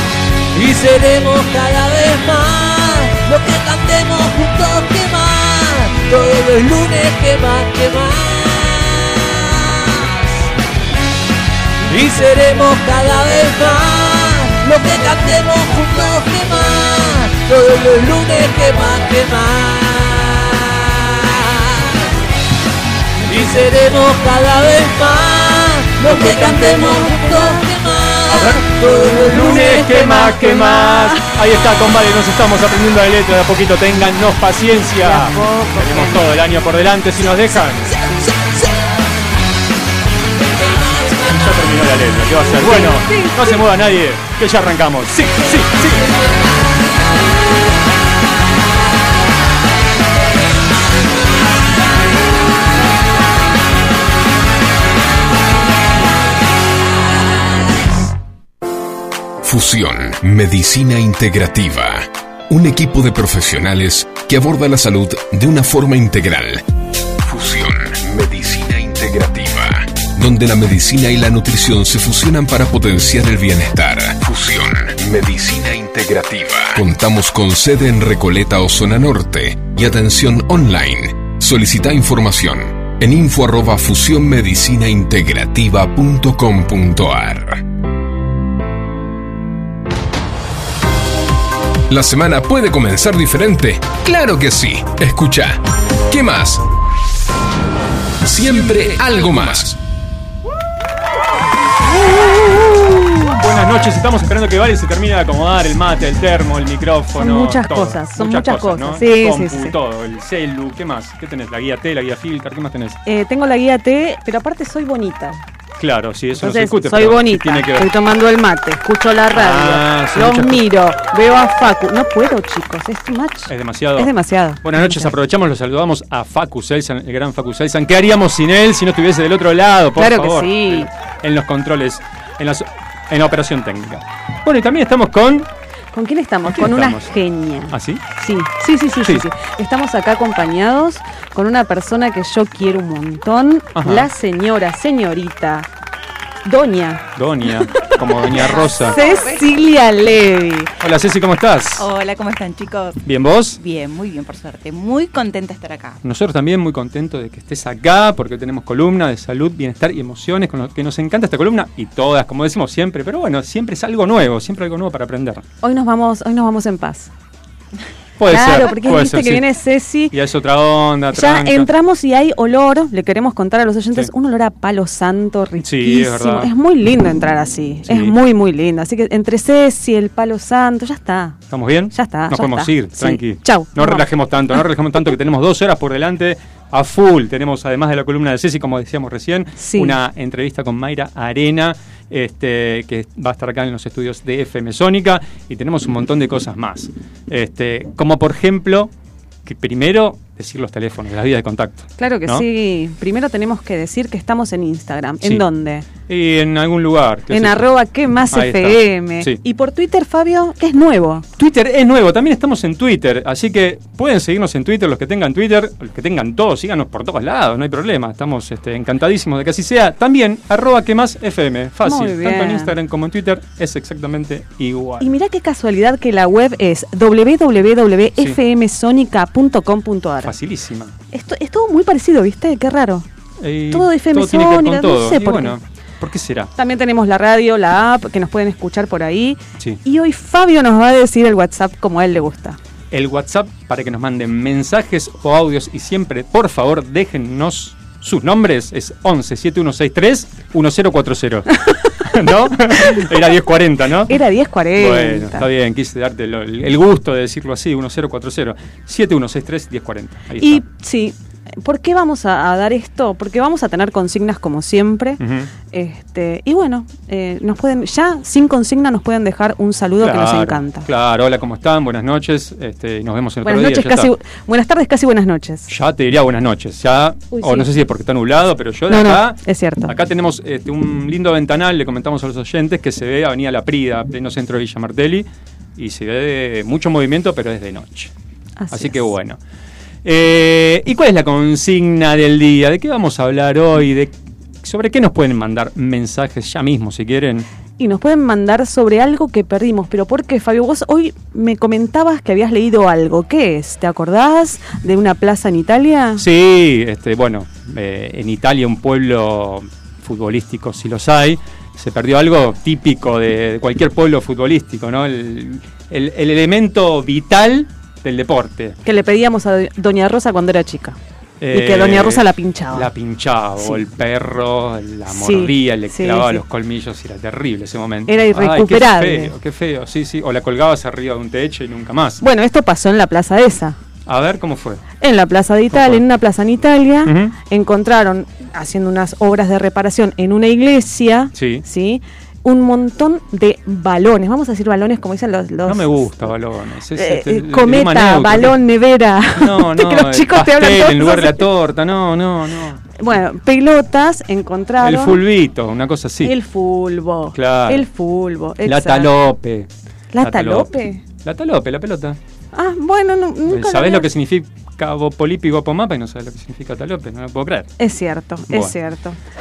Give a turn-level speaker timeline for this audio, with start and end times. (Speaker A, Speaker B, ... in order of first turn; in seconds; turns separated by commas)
Speaker A: 0.5-10.4, Speaker A: 11.9-22.1, Speaker A: 23.3-29.9, Speaker B: 26.1-27.7, Speaker C: 26.1-26.7, Speaker C: 28.3-28.6, Speaker B: 28.8-31.3, Speaker C: 29.2-37.9, Speaker B: 34.9-36.3, Speaker A: 38.0-38.7, Speaker A: 40.7-41.7, Speaker C: 41.2-46.1, Speaker B: 42.6-43.6, Speaker D: 59.4-66.6, Speaker D: 67.3-87.6, Speaker D: 91.9-96.6, Speaker D: 98.2-99.8, Speaker B: 102.1-103.0, Speaker C: 103.0-113.0, Speaker B: 107.2-109.8, Speaker B: 113.1-115.4, Speaker C: 115.8-117.9, Speaker B: 116.3-125.1, Speaker C: 119.3-120.6, Speaker C: 123.5-135.5, Speaker B: 130.0-130.9, Speaker B: 135.9-145.7, Speaker C: 136.5-137.1, Speaker C: 137.7-138.0, Speaker C: 143.8-144.1, Speaker B: 146.4-147.1, Speaker C: 147.2-149.0, Speaker B: 147.7-150.7, Speaker E: 148.3-149.5, Speaker C: 150.8-151.9, Speaker E: 151.8-153.0, Speaker C: 153.0-153.6, Speaker E: 153.6-156.0, Speaker C: 156.0-165.4, Speaker B: 165.6-167.1, Speaker C: 168.2-169.5, Speaker B: 168.3-170.1, Speaker C: 170.1-171.7, Speaker B: 171.1-181.4, Speaker C: 175.6-176.5, Speaker C: 177.9-178.2, Speaker C: 181.5-198.9, Speaker B: 181.9-184.1, Speaker B: 189.6-190.0, Speaker C: 199.4-202.4, Speaker B: 202.0-205.9, Speaker C: 206.1-207.7, Speaker B: 207.3-211.3, Speaker C: 208.3-209.4, Speaker C: 211.4-225.1, Speaker B: 221.8-222.7, Speaker B: 225.0-230.3, Speaker C: 230.2-230.9, Speaker B: 231.1-233.1, Speaker C: 233.4-236.5, Speaker B: 233.7-235.6, Speaker B: 236.6-242.6, Speaker C: 242.9-254.2, Speaker B: 254.1-255.5, Speaker C: 254.8-260.6, Speaker B: 260.4-265.2, Speaker C: 265.2-265.5, Speaker B: 265.7-270.9, Speaker C: 270.0-274.1, Speaker B: 273.4-275.7, Speaker C: 275.7-285.3, Speaker B: 277.3-277.7, Speaker B: 278.9-279.9, Speaker C: 285.8-288.1, Speaker B: 288.6-289.0, Speaker C: 288.7-289.4, Speaker C: 290.1-294.1, Speaker C: 294.6-297.5, Speaker B: 297.8-306.2, Speaker C: 306.2-318.8, Speaker B: 318.8-321.0, Speaker C: 321.4-332.2, Speaker B: 321.5-322.9, Speaker B: 325.1-326.4, Speaker B: 328.1-329.3, Speaker B: 332.2-333.8, Speaker C: 334.1-334.8, Speaker B: 335.0-346.1, Speaker C: 335.7-336.0, Speaker C: 337.1-337.3, Speaker C: 341.4-341.6, Speaker C: 345.7-348.6, Speaker B: 347.0-351.5, Speaker C: 349.4-352.8, Speaker B: 353.0-355.2, Speaker C: 354.8-356.3, Speaker B: 356.2-359.1, Speaker C: 357.3-357.9, Speaker C: 358.6-360.7, Speaker B: 360.1-361.0, Speaker C: 361.2-362.2, Speaker B: 362.5-364.1, Speaker C: 363.5-367.7, Speaker B: 367.8-369.2, Speaker C: 368.5-368.8